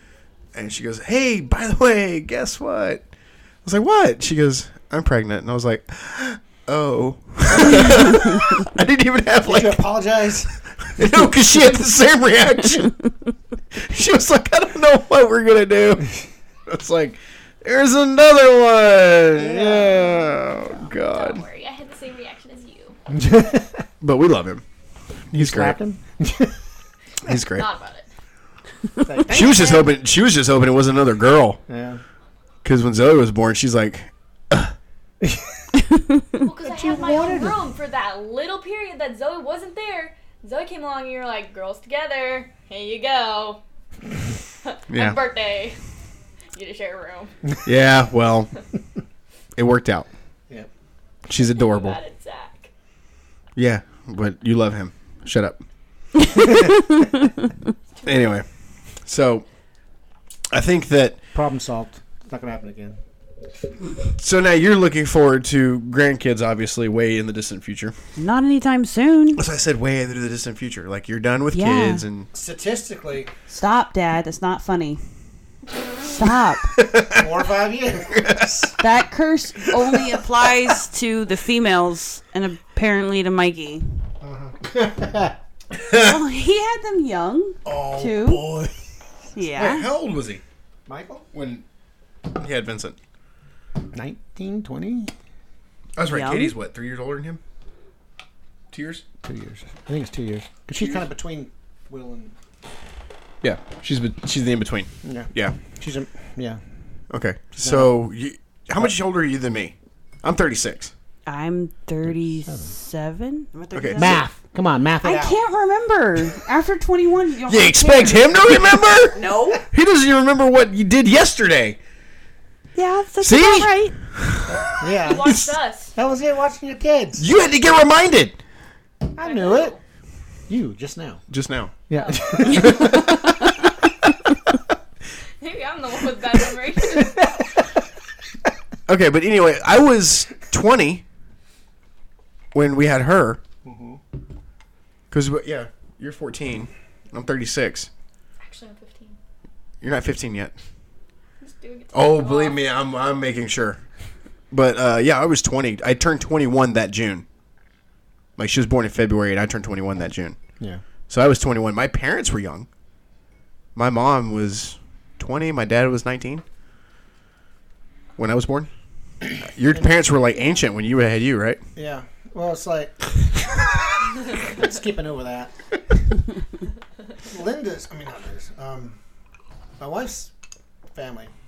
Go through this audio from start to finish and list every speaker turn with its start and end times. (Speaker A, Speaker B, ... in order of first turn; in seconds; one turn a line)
Speaker A: 0.5-3.0
Speaker A: 3.6-9.8
Speaker B: 9.4-10.6
Speaker A: 10.9-12.9
Speaker A: 13.7-16.1
Speaker A: 16.7-21.4
Speaker B: 19.4-20.4
Speaker C: 20.6-23.0
Speaker B: 23.1-23.9
Speaker A: 24.0-24.6
Speaker A: 25.3-25.8
Speaker B: 25.3-26.5
Speaker A: 27.2-27.7
Speaker C: 27.3-28.1
Speaker B: 29.0-29.9
Speaker A: 29.3-31.6
Speaker B: 31.7-32.0
Speaker A: 32.6-34.7
Speaker B: 35.2-35.5
Speaker D: 35.9-36.2
Speaker C: 36.4-43.6
Speaker B: 36.6-37.6
Speaker C: 44.6-45.8
Speaker A: 44.9-45.2
Speaker C: 46.5-47.3
Speaker A: 47.6-48.5
Speaker A: 49.6-50.1
Speaker A: 51.3-52.0
Speaker C: 51.4-52.7
Speaker A: 53.6-55.6
Speaker A: 58.0-58.5
Speaker A: 59.0-59.5
Speaker A: 60.5-61.2
Speaker B: 61.3-63.0
Speaker A: 64.2-68.0
Speaker D: 68.2-69.4
Speaker A: 69.4-72.3
Speaker D: 71.5-72.0
Speaker B: 72.3-73.3
Speaker D: 73.5-75.0
Speaker D: 76.0-76.7
Speaker A: 76.7-77.3
Speaker B: 77.1-78.7
Speaker A: 78.1-78.7
Speaker D: 78.7-83.9
Speaker A: 79.7-80.0
Speaker B: 84.2-85.4
Speaker A: 85.8-86.2
Speaker D: 85.9-88.4
Speaker A: 87.7-88.7
Speaker B: 88.0-88.5
Speaker D: 89.3-89.9
Speaker A: 89.5-90.4
Speaker B: 90.9-91.3
Speaker A: 91.3-91.6
Speaker A: 92.3-93.0
Speaker B: 93.9-95.1
Speaker A: 96.0-97.4
Speaker D: 96.0-96.5
Speaker A: 98.7-99.0
Speaker B: 99.2-102.3
Speaker A: 100.8-101.0
Speaker A: 103.4-105.6
Speaker B: 105.0-106.6
Speaker A: 107.1-110.9
Speaker B: 107.6-107.9
Speaker D: 111.3-114.3
Speaker A: 113.7-114.2
Speaker B: 114.0-115.4
Speaker D: 115.0-119.6
Speaker A: 117.5-121.8
Speaker D: 122.8-124.0
Speaker A: 123.2-125.5
Speaker B: 124.5-125.3
Speaker C: 124.8-125.9
Speaker B: 126.0-127.3
Speaker A: 127.2-128.4
Speaker B: 129.1-129.8
Speaker C: 129.2-129.8
Speaker B: 130.5-131.2
Speaker A: 131.3-131.7
Speaker B: 131.9-133.1
Speaker C: 131.9-132.9
Speaker A: 132.4-133.3
Speaker C: 135.4-137.4
Speaker A: 138.9-141.0
Speaker A: 142.5-143.4
Speaker B: 143.7-144.0
Speaker A: 145.1-147.9
Speaker C: 148.4-149.2
Speaker A: 149.8-150.5
Speaker C: 151.4-152.6
Speaker A: 151.9-153.8
Speaker A: 154.5-157.2
Speaker A: 158.4-160.4
Speaker A: 161.1-162.7
Speaker A: 163.8-166.4
Speaker A: 168.2-168.7
Speaker A: 169.4-171.6
Speaker B: 171.8-173.2
Speaker B: 174.3-176.2
Speaker B: 177.2-179.0
Speaker B: 179.8-180.3
Speaker B: 180.9-181.3